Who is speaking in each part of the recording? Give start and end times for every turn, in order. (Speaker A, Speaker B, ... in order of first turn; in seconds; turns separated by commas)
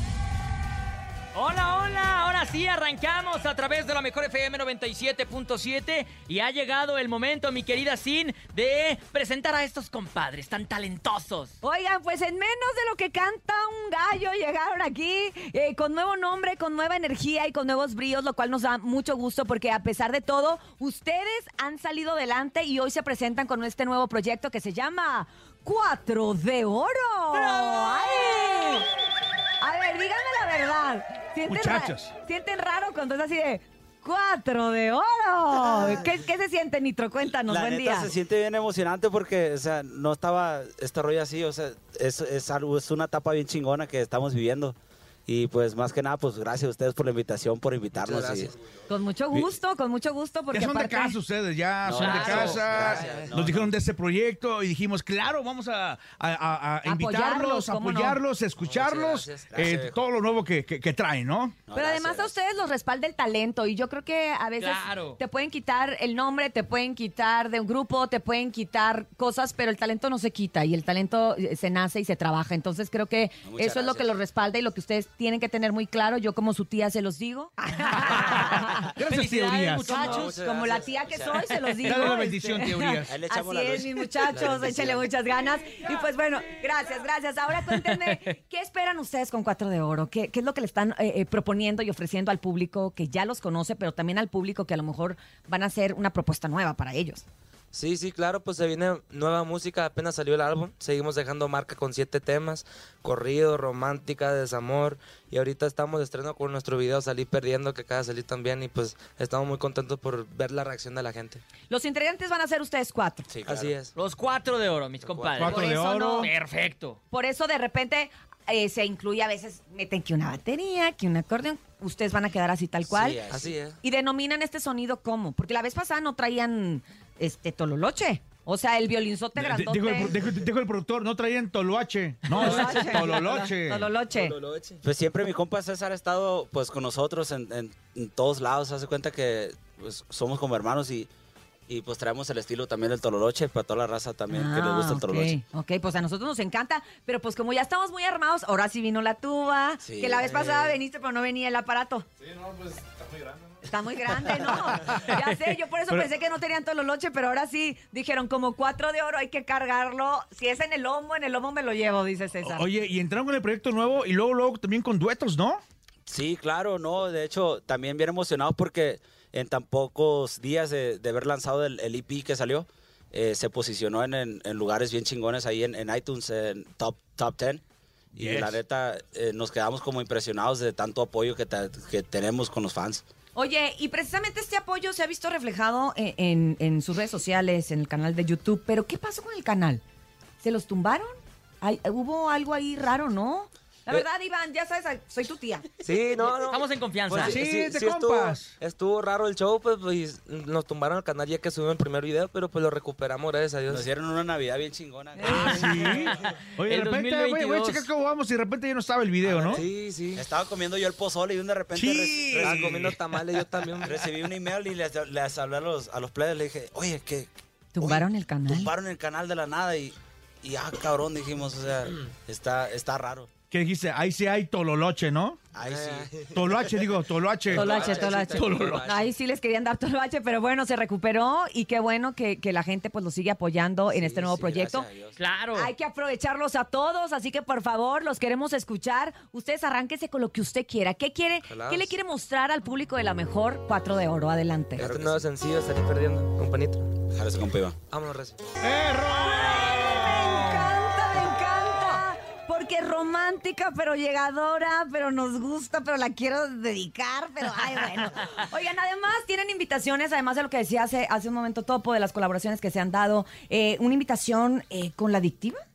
Speaker A: 1.3-11.5, Speaker B: 11.6-28.9, Speaker B: 29.6-38.1, Speaker C: 31.5-32.1, Speaker D: 37.5-48.5, Speaker E: 47.9-48.5, Speaker B: 48.9-51.1, Speaker C: 50.5-61.6, Speaker D: 51.8-53.7, Speaker A: 51.9-52.8, Speaker E: 52.3-53.4, Speaker B: 56.8-58.2, Speaker E: 58.6-59.5, Speaker D: 59.5-60.0, Speaker D: 61.7-62.3, Speaker B: 61.7-78.9, Speaker A: 64.6-65.2, Speaker D: 73.4-74.2, Speaker A: 78.1-80.4, Speaker C: 78.1-80.0, Speaker B: 79.9-97.2, Speaker E: 80.0-80.9, Speaker D: 80.1-81.4, Speaker C: 81.8-83.2, Speaker D: 83.1-85.1, Speaker E: 97.7-111.4, Speaker B: 111.7-113.3, Speaker D: 113.3-113.8, Speaker E: 113.5-113.9, Speaker A: 113.9-115.7, Speaker E: 115.0-115.5, Speaker C: 115.4-116.3, Speaker B: 115.4-116.3, Speaker A: 116.2-117.0, Speaker B: 117.1-123.2, Speaker D: 122.8-123.6, Speaker E: 123.3-123.8, Speaker B: 123.8-130.2, Speaker C: 129.3-133.9, Speaker B: 132.3-134.4, Speaker E: 132.4-132.8, Speaker E: 134.1-134.8, Speaker D: 134.8-141.1, Speaker D: 141.7-145.4, Speaker B: 144.3-152.1, Speaker D: 149.8-150.8, Speaker B: 153.6-162.7, Speaker C: 162.4-165.6, Speaker D: 166.1-177.6, Speaker D: 178.1-183.0, Speaker C: 178.2-178.6, Speaker B: 183.3-189.8, Speaker B: 190.4-195.7, Speaker E: 195.8-203.9, Speaker A: 196.2-197.4, Speaker C: 197.2-198.5, Speaker D: 203.7-206.1, Speaker B: 205.2-205.6, Speaker C: 205.2-209.6, Speaker A: 205.2-207.9, Speaker D: 209.2-213.0, Speaker E: 209.5-210.2, Speaker C: 211.7-212.6, Speaker E: 212.3-214.1, Speaker D: 213.8-223.3, Speaker B: 217.7-218.7, Speaker C: 223.5-225.4, Speaker D: 225.5-226.8, Speaker E: 225.6-226.4, Speaker C: 226.3-228.8, Speaker E: 227.5-229.1, Speaker B: 227.5-234.9, Speaker D: 227.7-228.2, Speaker D: 233.9-235.2, Speaker A: 235.2-235.7, Speaker B: 235.5-244.9, Speaker E: 241.5-241.9, Speaker D: 244.8-245.3, Speaker E: 244.8-246.9, Speaker D: 247.1-247.8, Speaker E: 247.9-248.4, Speaker C: 248.6-250.7, Speaker B: 249.1-265.6